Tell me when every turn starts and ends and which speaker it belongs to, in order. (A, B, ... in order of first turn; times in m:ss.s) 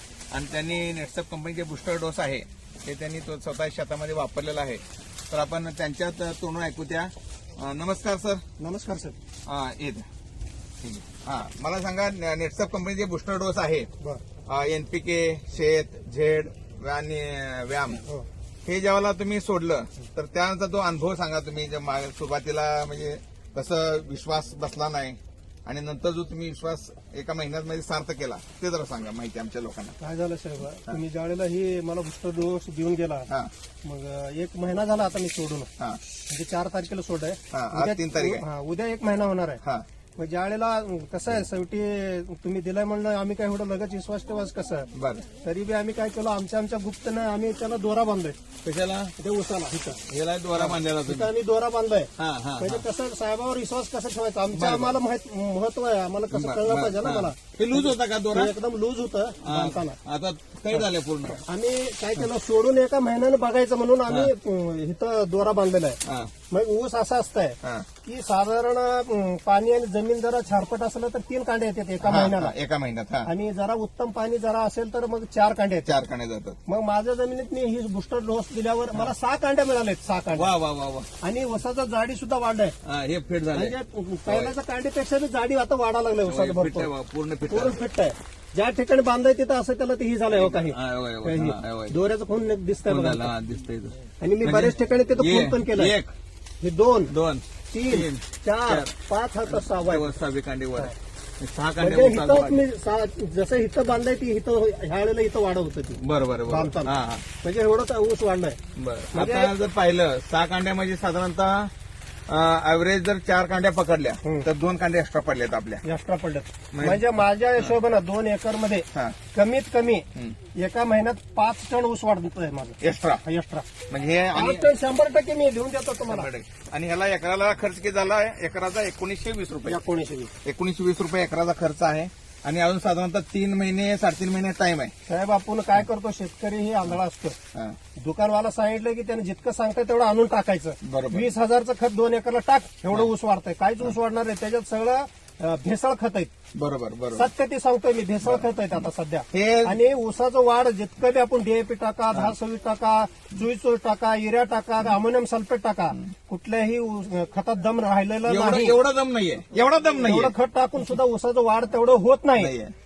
0:00.3-0:08.4 A
0:08.6-0:09.2 B
0:09.5-0:10.0 A
0:10.8-0:13.9 A
0:14.4-0:18.0 A
0:18.6-0:30.0 A
0:30.0-0:33.3 B
0:33.8-0:35.7 B
0:36.3-0:39.6 B
0:37.5-0:38.4 A
0:40.2-0:44.9 B
0:44.9-0:45.2 A
0:45.4-0:48.4 B
0:48.6-0:49.1 A
0:49.2-0:50.0 B
0:50.0-0:51.3 A
0:50.6-1:00.0 B
0:52.2-0:52.8 A
0:54.5-0:54.9 A
0:56.3-0:58.5 A
0:59.4-1:01.4 A
1:00.7-1:06.0 B
1:06.0-1:06.3 A
1:06.5-1:12.5 B
1:07.6-1:07.9 A
1:12.0-1:13.3 A
1:13.2-1:15.9 B
1:15.8-1:16.6 A
1:16.7-1:20.5 B
1:20.3-1:21.1 A
1:21.2-1:22.7 B
1:22.8-1:23.7 A
1:23.5-1:26.9 B
1:24.3-1:24.5 A
1:26.2-1:27.8 A
1:27.4-1:33.3 B
1:30.3-1:31.9 A
1:32.9-1:36.1 A
1:34.2-1:35.9 B
1:36.6-1:37.1 B
1:37.1-1:38.9 A
1:37.7-1:40.1 B
1:39.5-1:42.6 A
1:41.8-1:46.9 B
1:46.0-1:47.2 A
1:47.4-1:48.6 B
1:48.8-1:51.7 A
1:49.1-1:49.5 B
1:52.3-1:55.8 A
1:55.8-2:00.0 B
1:56.7-1:57.0 A
2:00.6-2:03.7 B
2:02.8-2:03.2 A
2:03.9-2:04.7 A
2:04.3-2:06.3 B
2:06.0-2:09.8 A
2:09.7-2:10.3 B
2:10.4-2:14.9 A
2:15.1-2:17.4 B
2:18.0-2:26.3 B
2:20.8-2:21.3 A
2:26.5-2:27.2 A
2:27.1-2:38.8 B
2:29.3-2:29.7 A
2:38.3-2:40.3 A
2:40.0-2:42.5 B
2:42.4-2:42.7 A